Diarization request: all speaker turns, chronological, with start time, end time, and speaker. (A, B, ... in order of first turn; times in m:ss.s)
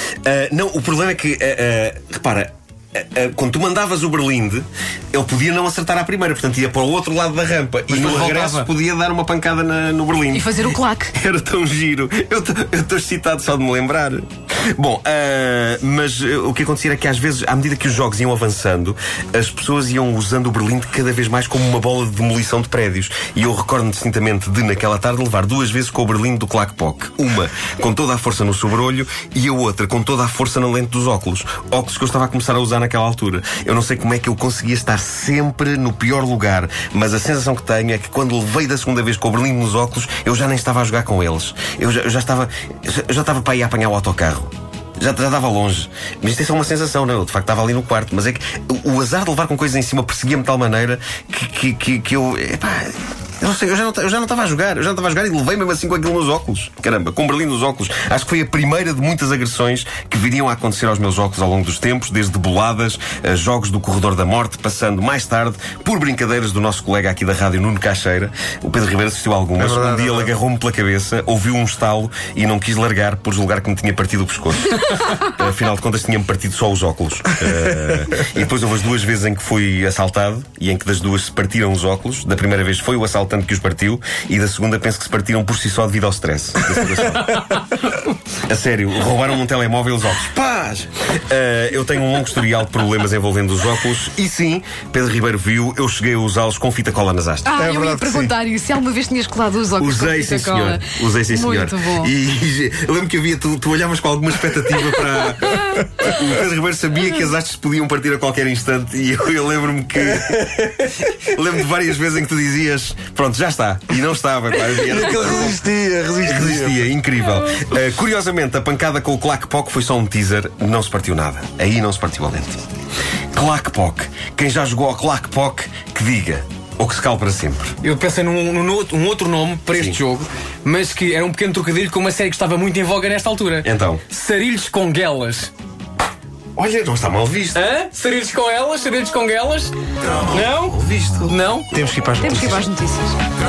0:00.2-1:27.4 A
0:07.9-0:08.7 B
0:10.3-0:11.1 C
1:09.6-1:10.3 D
1:28.5-1:37.5 A
1:37.4-1:42.1 C
1:37.6-1:38.3 D
1:39.8-1:55.6 A
1:54.8-1:56.8 D
1:56.2-2:02.6 A
2:03.3-2:07.7 A
2:07.8-2:15.5 B
2:09.7-2:10.0 A
2:13.6-2:14.0 A
2:16.6-2:17.6 A
2:17.5-2:19.7 B
2:20.3-2:21.4 A
2:20.3-2:21.7 B
2:21.7-2:22.7 D
2:22.2-2:23.2 C